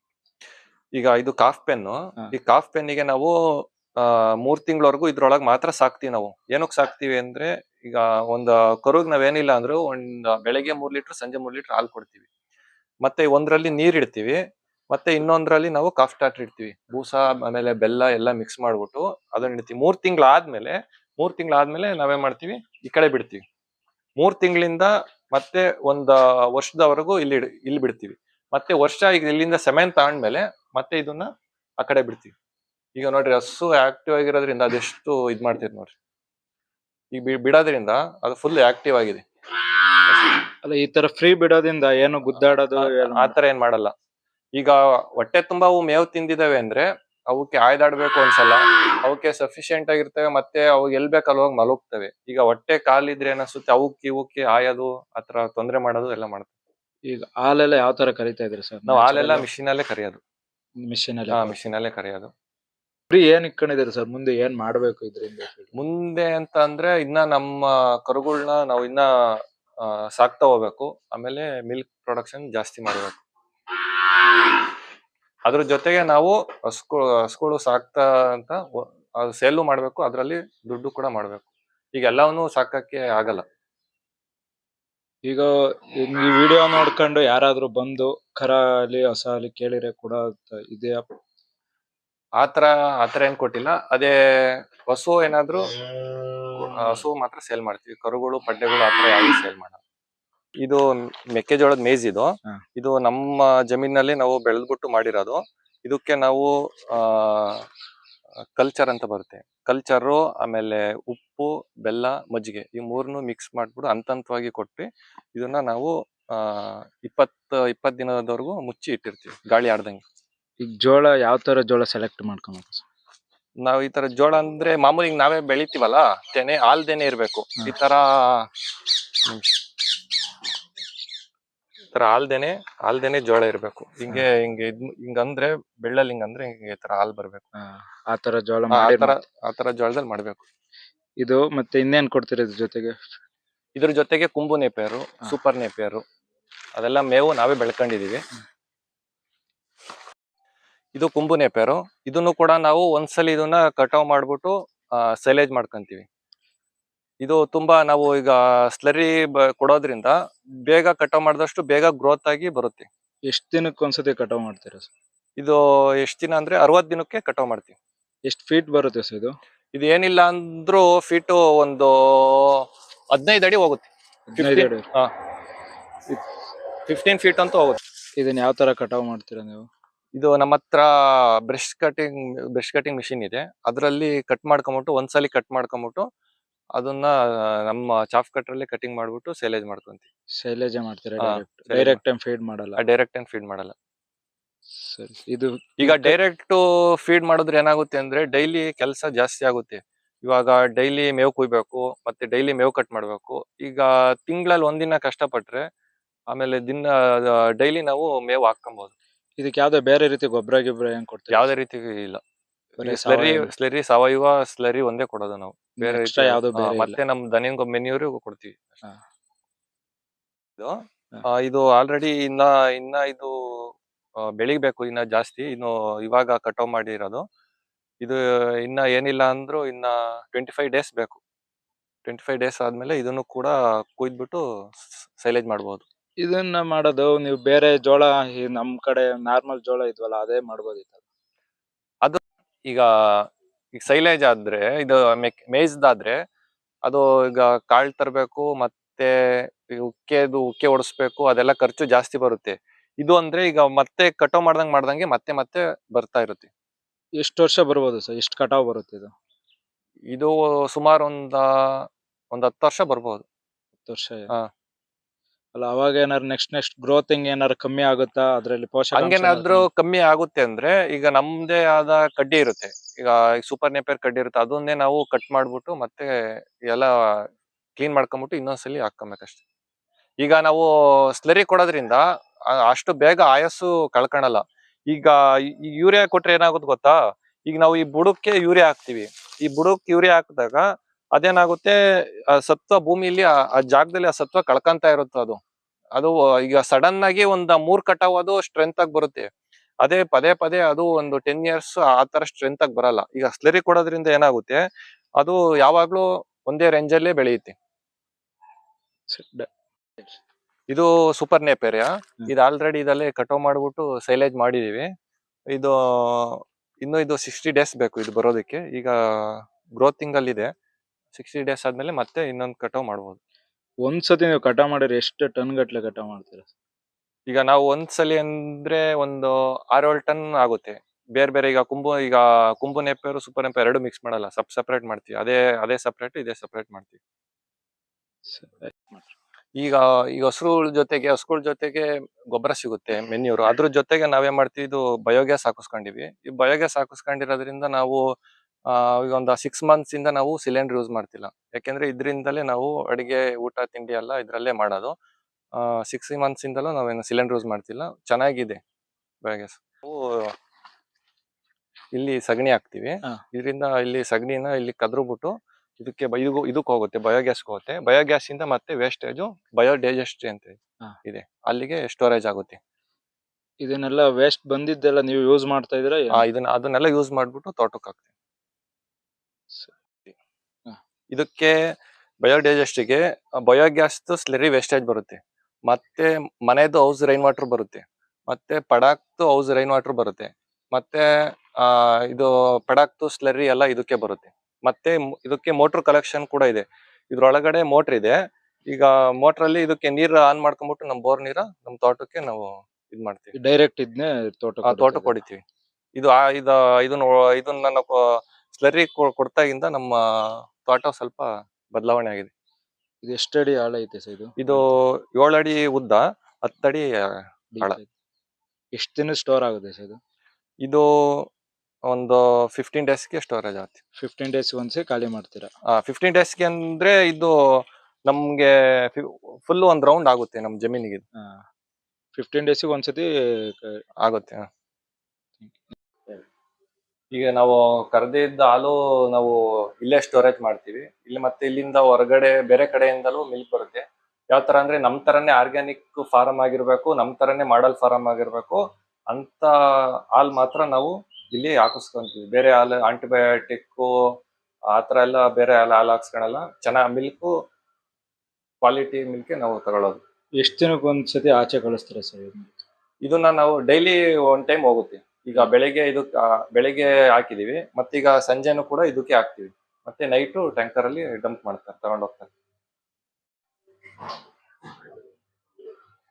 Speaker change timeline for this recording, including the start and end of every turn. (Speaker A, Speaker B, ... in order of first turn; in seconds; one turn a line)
Speaker A: 0.9-12.2
Speaker A: 13.0-14.4
Speaker A: 14.9-23.4
Speaker A: 24.2-32.3
Speaker A: 33.0-35.9
Speaker A: 37.1-39.2
Speaker A: 40.1-40.4
Speaker B: 40.6-43.3
Speaker A: 42.8-43.9
Speaker A: 44.5-56.5
Speaker B: 57.1-59.5
Speaker A: 58.9-60.2
Speaker B: 60.8-61.5
Speaker A: 61.3-62.3
Speaker B: 63.1-65.7
Speaker A: 65.7-69.1
Speaker A: 69.8-73.2
Speaker A: 75.5-83.4
Speaker B: 86.0-91.0
Speaker A: 92.4-95.7
Speaker A: 96.5-99.8
Speaker A: 100.6-107.6
Speaker A: 108.6-120.0
Speaker B: 120.6-122.8
Speaker A: 123.6-128.5
Speaker A: 129.3-129.6
Speaker A: 131.9-137.4
Speaker B: 137.6-139.2
Speaker A: 138.7-140.4
Speaker B: 141.2-143.0
Speaker A: 143.8-146.0
Speaker A: 146.8-148.2
Speaker A: 150.9-156.1
Speaker A: 157.2-160.1
Speaker A: 160.7-162.9
Speaker B: 163.3-164.9
Speaker A: 165.4-167.8
Speaker B: 168.3-169.3
Speaker A: 169.7-175.1
Speaker B: 174.3-174.8
Speaker A: 176.8-177.8
Speaker B: 178.2-179.7
Speaker A: 180.2-180.9
Speaker A: 181.4-186.0
Speaker A: 186.8-190.1
Speaker B: 190.4-192.8
Speaker A: 191.2-192.0
Speaker A: 192.8-193.7
Speaker B: 194.8-196.2
Speaker A: 195.8-205.7
Speaker A: 206.3-208.9
Speaker B: 209.4-211.5
Speaker A: 211.3-212.2
Speaker B: 212.8-213.5
Speaker A: 212.8-218.8
Speaker B: 215.8-217.0
Speaker A: 220.6-223.7
Speaker A: 224.2-227.2
Speaker A: 228.0-231.2
Speaker A: 232.0-235.8
Speaker B: 236.2-241.0
Speaker A: 242.0-246.2
Speaker A: 246.8-256.5
Speaker B: 257.2-259.1
Speaker A: 260.1-263.2
Speaker B: 263.9-264.3
Speaker B: 265.5-269.7
Speaker A: 268.9-276.1
Speaker A: 276.7-277.3
Speaker A: 277.8-279.4
Speaker A: 280.2-290.6
Speaker A: 291.1-295.4
Speaker A: 295.9-299.3
Speaker A: 299.8-304.6
Speaker A: 305.2-307.5
Speaker B: 309.1-310.2
Speaker A: 310.7-314.9
Speaker A: 315.5-320.5
Speaker A: 321.1-323.2
Speaker B: 323.9-326.5
Speaker A: 327.3-337.0
Speaker B: 338.3-339.1
Speaker A: 339.6-348.0
Speaker A: 348.7-354.9
Speaker A: 355.5-358.6
Speaker A: 359.2-360.3
Speaker A: 361.9-372.6
Speaker B: 373.6-376.2
Speaker A: 376.1-378.1
Speaker A: 381.1-381.6
Speaker A: 382.2-398.1
Speaker A: 398.7-403.3
Speaker B: 403.4-405.2
Speaker A: 404.6-405.4
Speaker A: 405.9-412.3
Speaker B: 413.0-414.7
Speaker A: 414.4-416.9
Speaker B: 417.5-417.9
Speaker B: 418.8-420.0
Speaker A: 420.6-421.3
Speaker A: 421.9-423.8
Speaker B: 424.0-425.5
Speaker A: 425.7-427.3
Speaker A: 428.1-431.0
Speaker B: 431.2-431.4
Speaker B: 432.1-433.8
Speaker A: 434.0-434.5
Speaker B: 435.4-436.2
Speaker A: 437.1-453.9
Speaker A: 454.7-457.3
Speaker A: 458.6-460.0
Speaker B: 460.4-462.6
Speaker A: 463.0-472.3